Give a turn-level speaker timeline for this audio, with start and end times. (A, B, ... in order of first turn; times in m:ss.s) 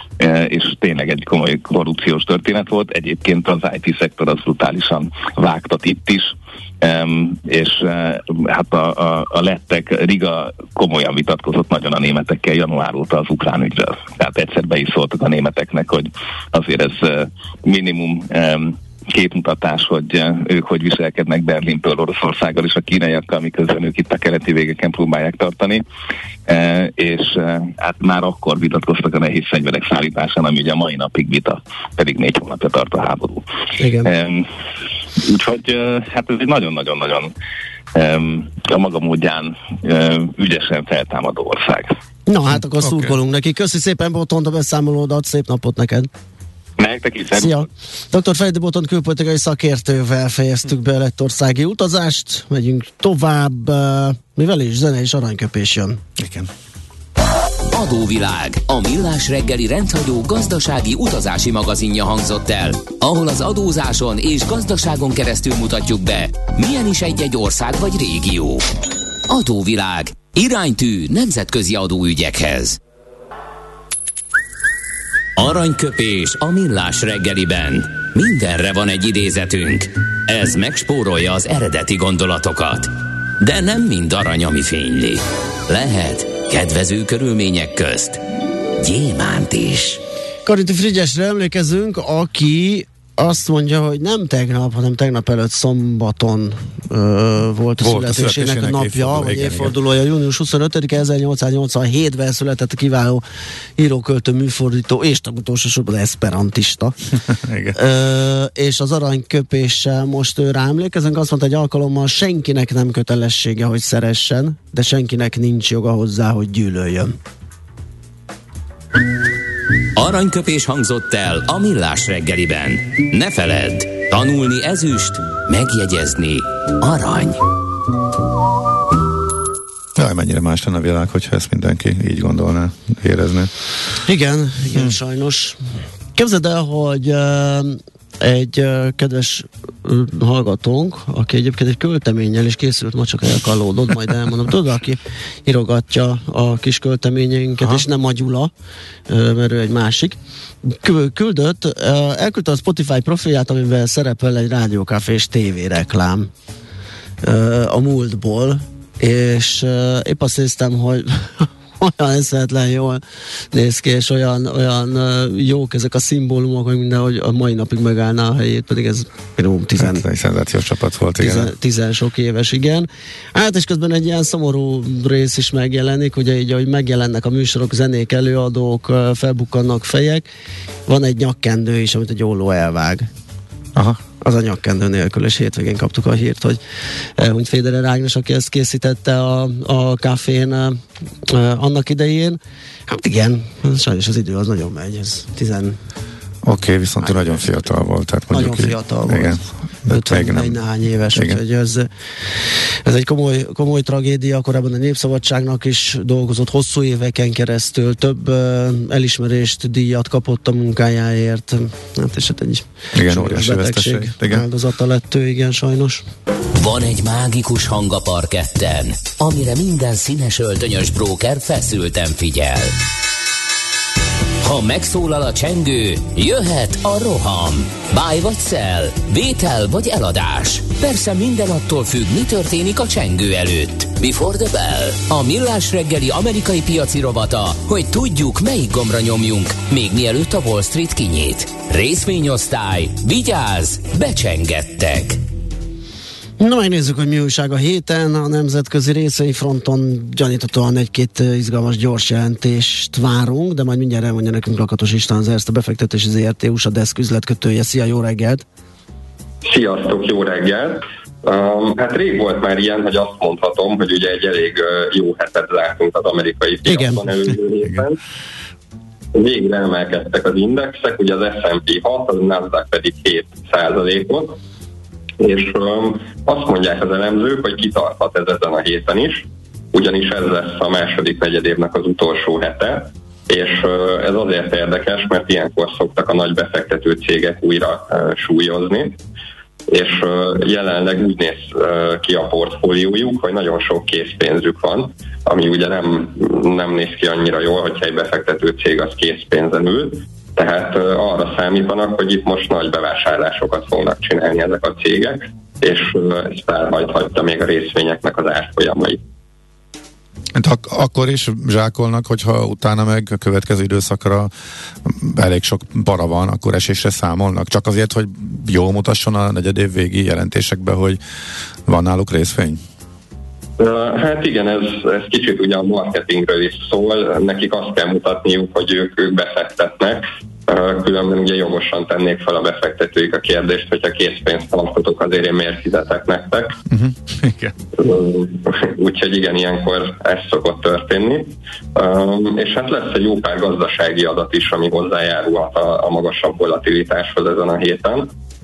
0:00.2-0:25.8 A
0:26.5-0:33.4 A
0:33.8-0:34.1 B
0:34.0-0:34.5 A
0:35.2-0:37.3 A
0:37.9-0:42.0 A
0:42.3-0:46.1 B
0:42.8-0:43.1 C
0:46.8-0:47.7 A
0:47.3-0:56.0 B
0:56.2-0:56.5 C
0:57.7-1:08.7 D
1:09.3-1:12.8 D
1:15.4-1:28.2 D
1:28.8-1:30.0 D
1:30.5-1:43.2 B
1:37.8-1:39.8 C
1:43.8-1:47.0 B
1:47.4-1:47.8 C
1:47.7-1:57.1 B
1:59.9-2:07.4 D
2:10.0-2:13.5 C
2:14.0-2:15.6 B
2:16.2-2:28.5 B
2:29.1-2:36.3 B
2:37.2-2:43.0 B
2:43.5-2:50.0 B
2:49.8-2:51.5 C
2:51.2-3:00.3 B
3:00.9-3:03.1 B
3:04.2-3:06.6 B
3:07.2-3:15.8 B
3:16.4-3:20.6 C
3:18.3-3:21.9 B
3:21.1-3:21.4 C
3:22.4-3:36.0 B
3:32.9-3:34.5 C
3:36.5-3:42.8 D
3:44.4-4:05.2 D
4:06.4-4:18.4 B
4:19.4-4:28.0 E
4:26.7-4:27.0 B
4:29.1-4:34.4 E
4:35.2-4:49.0 E
4:49.7-5:09.0 E
5:10.4-5:14.3 C
5:14.8-5:21.0 C
5:21.7-5:22.6 C
5:23.6-5:36.6 E
5:36.7-5:37.5 C
5:37.8-5:48.1 E